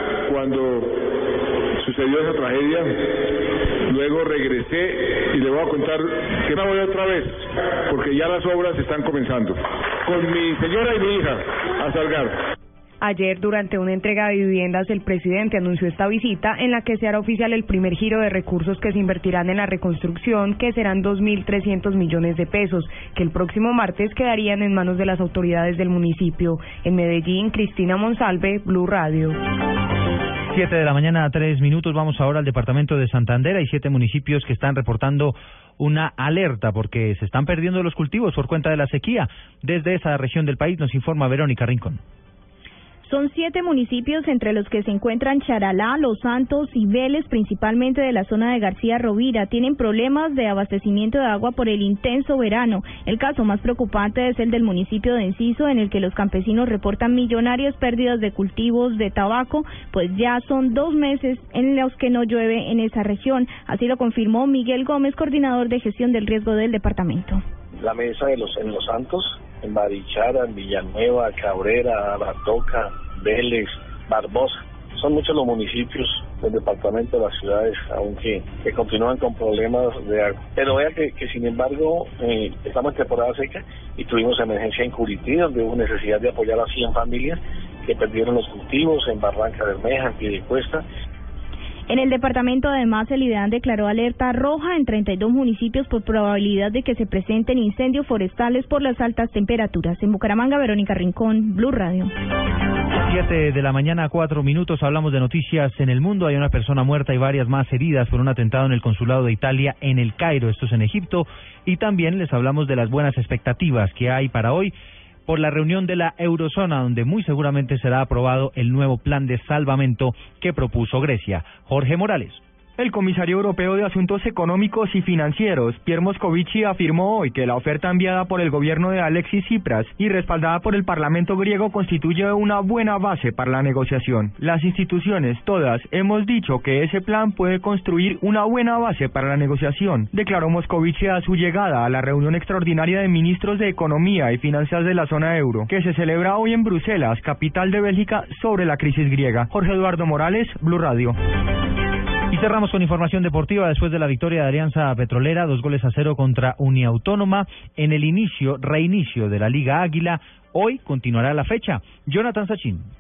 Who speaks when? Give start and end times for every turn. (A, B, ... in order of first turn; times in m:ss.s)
0:00.2-0:00.9 A
0:01.8-0:02.9 A
0:03.9-0:12.3 A
0:13.0-0:29.4 B
0:30.5-0:42.0 C
0:43.0-1:07.4 D
1:07.8-1:30.8 E
1:31.9-1:42.1 D
1:43.0-1:54.7 C
1:55.2-2:02.4 C
2:02.8-2:31.1 F
2:32.3-2:42.9 C